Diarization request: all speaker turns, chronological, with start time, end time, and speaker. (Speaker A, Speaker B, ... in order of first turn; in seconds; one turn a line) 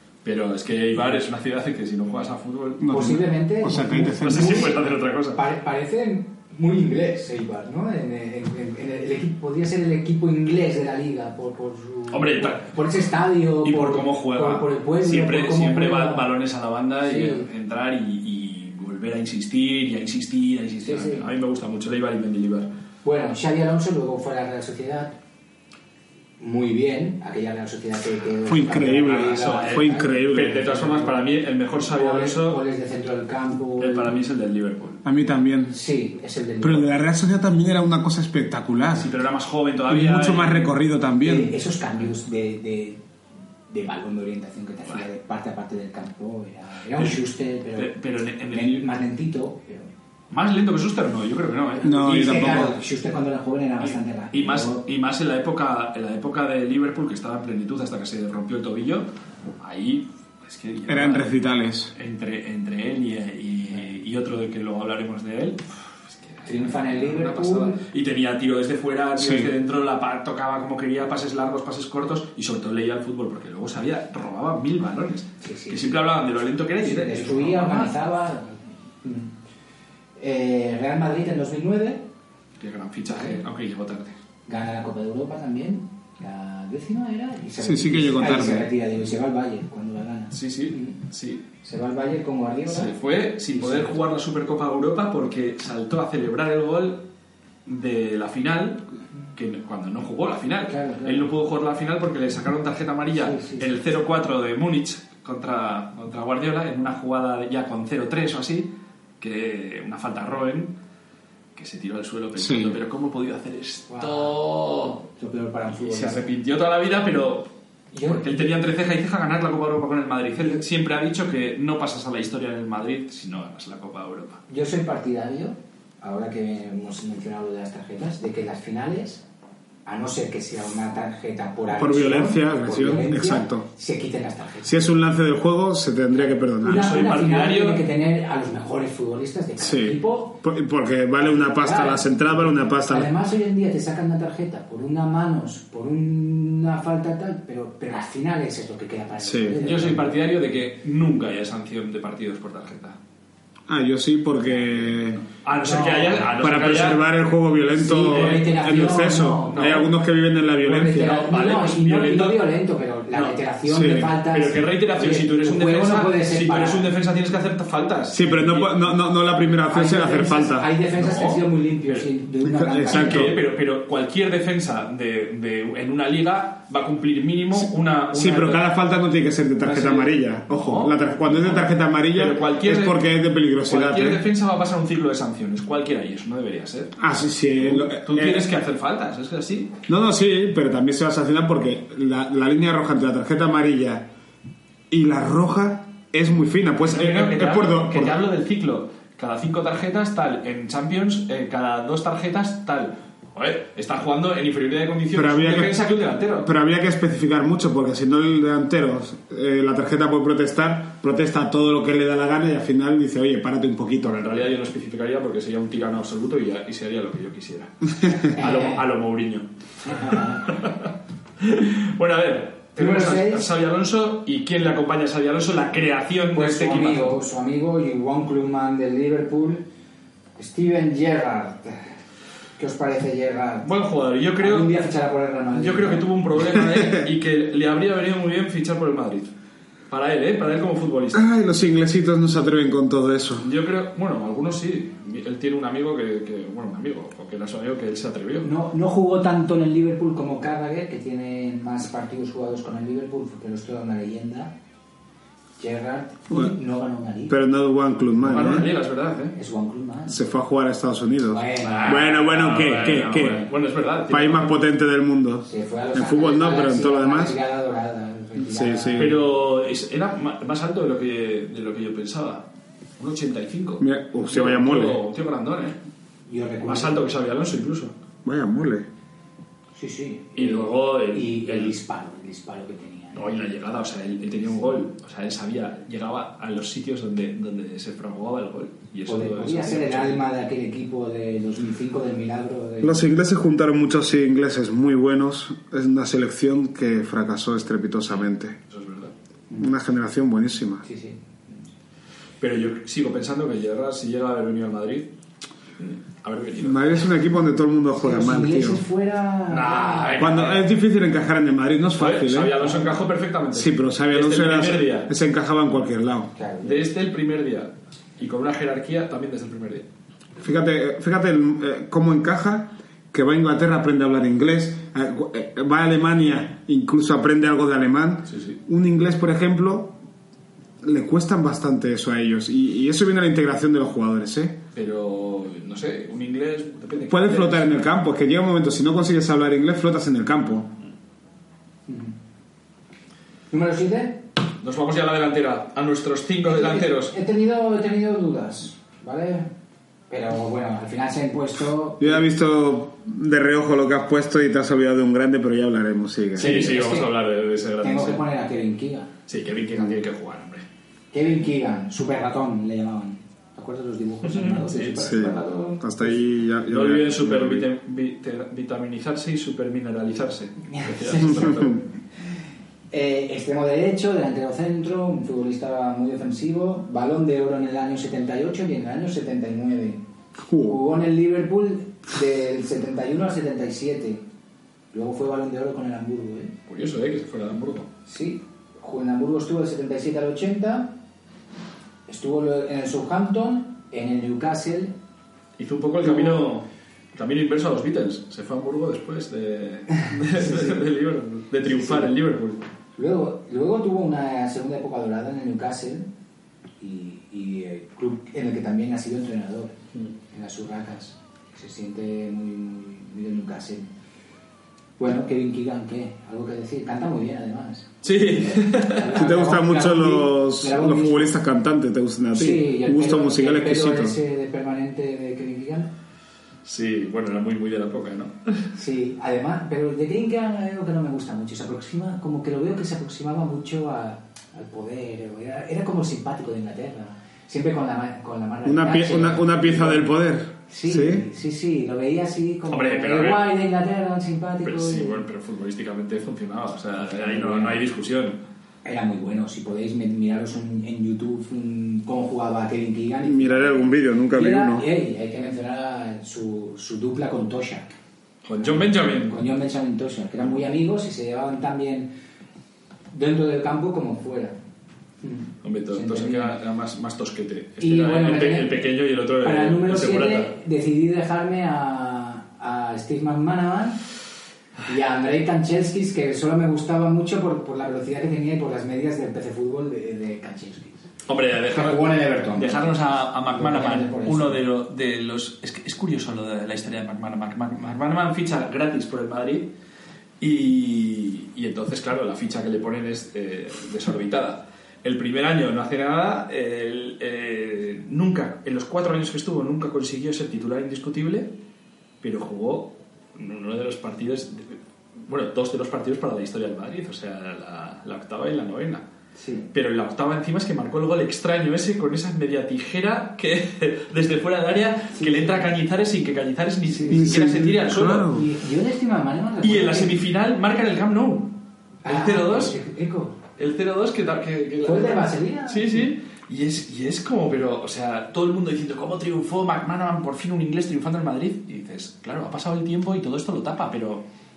Speaker A: 0.2-3.2
Speaker B: 2.8-4.7
Speaker C: 2.9-16.3
Speaker A: 4.2-5.4
Speaker A: 12.1-12.7
Speaker A: 13.6-22.7
Speaker C: 17.0-17.5
Speaker C: 20.8-21.2
Speaker C: 23.0-25.1
Speaker C: 26.4-31.2
Speaker B: 28.4-30.7
Speaker A: 28.9-32.6
Speaker C: 31.8-34.2
Speaker A: 33.8-35.0
Speaker B: 35.0-35.8
Speaker C: 35.7-36.9
Speaker B: 36.6-39.1
Speaker A: 39.0-40.6
Speaker B: 39.9-41.5
Speaker C: 41.2-43.0
Speaker C: 43.7-47.9
Speaker A: 47.0-47.2
Speaker A: 47.8-48.9
Speaker C: 48.5-49.9
Speaker A: 50.3-52.8
Speaker C: 51.8-54.8
Speaker B: 51.8-52.7
Speaker A: 53.8-59.1
Speaker A: 59.6-61.4
Speaker B: 60.9-61.9
Speaker A: 61.9-77.9
Speaker C: 66.4-67.8
Speaker B: 69.2-69.5
Speaker C: 75.4-76.0
Speaker C: 76.8-79.3
Speaker C: 80.2-82.0
Speaker A: 82.6-84.2
Speaker C: 83.1-83.4
Speaker C: 84.5-91.0
Speaker B: 87.6-88.7
Speaker A: 90.3-91.4
Speaker C: 91.6-92.9
Speaker A: 92.7-97.0
Speaker C: 93.5-94.0
Speaker A: 97.7-110.8
Speaker C: 100.7-101.3
Speaker C: 103.2-103.7
Speaker A: 111.5-115.0
Speaker B: 112.4-112.8
Speaker C: 113.9-114.4
Speaker C: 115.2-116.3
Speaker A: 115.7-117.5
Speaker C: 117.9-118.5
Speaker A: 118.0-124.4
Speaker C: 124.5-129.2
Speaker C: 129.8-134.9
Speaker B: 131.7-133.7
Speaker B: 134.7-136.9
Speaker C: 136.1-140.4
Speaker A: 136.6-137.8
Speaker B: 139.6-143.1
Speaker C: 141.2-150.2
Speaker B: 149.2-149.6
Speaker A: 149.6-153.0
Speaker B: 153.7-155.2
Speaker C: 154.7-156.4
Speaker A: 155.4-157.0
Speaker B: 156.4-161.3
Speaker C: 157.7-159.8
Speaker A: 157.8-159.9
Speaker C: 160.6-166.9
Speaker A: 160.9-162.5
Speaker A: 163.1-163.4
Speaker B: 163.7-164.2
Speaker A: 164.2-168.9
Speaker B: 168.1-170.7
Speaker C: 169.7-173.3
Speaker A: 170.9-172.1
Speaker B: 172.4-173.3
Speaker A: 172.9-178.7
Speaker B: 178.1-184.2
Speaker A: 179.6-183.0
Speaker A: 183.7-187.0
Speaker B: 187.0-188.5
Speaker A: 187.5-189.7
Speaker B: 189.9-194.1
Speaker B: 194.9-198.2
Speaker A: 196.8-206.5
Speaker B: 205.1-205.8
Speaker B: 206.4-214.2
Speaker A: 214.0-227.2
Speaker C: 218.3-218.8
Speaker C: 219.8-220.6
Speaker C: 222.8-223.5
Speaker C: 226.3-229.7
Speaker C: 230.3-232.0
Speaker C: 232.6-233.7
Speaker A: 233.6-234.7
Speaker C: 234.4-236.1
Speaker A: 235.5-239.3
Speaker B: 236.5-237.1
Speaker A: 239.9-241.2
Speaker B: 241.1-243.5
Speaker A: 243.4-248.5
Speaker C: 248.4-254.5
Speaker C: 255.6-257.4
Speaker B: 257.3-258.7
Speaker A: 258.2-259.4
Speaker C: 259.3-260.2
Speaker B: 260.1-263.5
Speaker C: 261.3-262.0
Speaker A: 261.6-264.6
Speaker B: 264.1-267.4
Speaker C: 265.4-269.2
Speaker B: 268.4-269.1
Speaker A: 268.9-272.5
Speaker A: 273.0-275.8
Speaker B: 273.8-275.0
Speaker C: 276.3-277.0
Speaker A: 276.6-277.9
Speaker B: 278.2-278.9
Speaker C: 279.8-283.5
Speaker A: 280.3-281.7
Speaker A: 283.1-290.2
Speaker C: 289.1-293.1
Speaker B: 292.8-298.6
Speaker A: 298.1-299.1
Speaker B: 299.6-300.8
Speaker C: 300.8-301.6
Speaker A: 302.4-305.1
Speaker A: 305.8-306.9
Speaker B: 306.6-308.8
Speaker C: 308.0-310.5
Speaker A: 309.5-310.7
Speaker B: 310.2-312.6
Speaker A: 311.9-315.1
Speaker C: 312.6-312.9
Speaker B: 313.5-316.3
Speaker C: 316.4-316.9
Speaker A: 316.6-319.9
Speaker B: 320.4-329.9
Speaker A: 328.3-328.6
Speaker B: 330.8-334.6
Speaker A: 334.7-337.9
Speaker B: 337.1-340.7
Speaker C: 341.9-342.1
Speaker C: 343.5-344.2
Speaker A: 344.6-347.1
Speaker C: 346.4-349.5
Speaker C: 350.1-352.3
Speaker B: 352.0-356.6
Speaker C: 356.3-357.2
Speaker A: 356.4-358.2
Speaker C: 357.8-359.1
Speaker A: 359.3-360.6
Speaker C: 361.1-366.1
Speaker A: 364.2-365.6
Speaker B: 365.0-367.7
Speaker A: 366.7-371.7
Speaker C: 370.7-371.8
Speaker B: 371.4-371.8
Speaker C: 372.9-380.0
Speaker B: 380.4-380.8
Speaker C: 380.6-384.2
Speaker C: 384.9-386.5
Speaker A: 386.7-387.9
Speaker C: 388.1-390.9
Speaker C: 392.1-394.9
Speaker A: 395.6-402.6
Speaker C: 396.0-396.5
Speaker C: 400.3-400.8
Speaker C: 401.7-402.1
Speaker C: 403.0-406.1
Speaker C: 406.8-409.8
Speaker C: 410.3-413.9
Speaker C: 415.0-421.4
Speaker A: 418.0-419.2
Speaker B: 419.1-424.2
Speaker C: 422.3-425.9
Speaker A: 426.6-428.7
Speaker C: 428.7-440.1
Speaker B: 438.6-441.2
Speaker C: 440.7-445.2
Speaker A: 442.7-443.5
Speaker A: 444.6-448.4
Speaker C: 447.1-447.8
Speaker C: 448.8-457.9
Speaker B: 453.2-454.9
Speaker A: 458.4-459.4
Speaker C: 458.7-462.1
Speaker C: 463.1-464.6
Speaker C: 465.2-466.6
Speaker A: 465.6-470.5
Speaker C: 467.8-468.7
Speaker C: 469.4-474.0
Speaker C: 474.8-481.1
Speaker A: 481.3-489.7
Speaker C: 481.7-484.6
Speaker A: 490.4-501.5
Speaker A: 502.2-509.0
Speaker C: 509.4-509.7
Speaker A: 509.7-518.3
Speaker C: 515.1-515.7
Speaker C: 516.9-517.4
Speaker B: 517.1-518.5
Speaker C: 518.2-520.2
Speaker A: 519.6-522.7
Speaker C: 522.0-523.4
Speaker A: 523.6-534.2
Speaker C: 524.8-526.1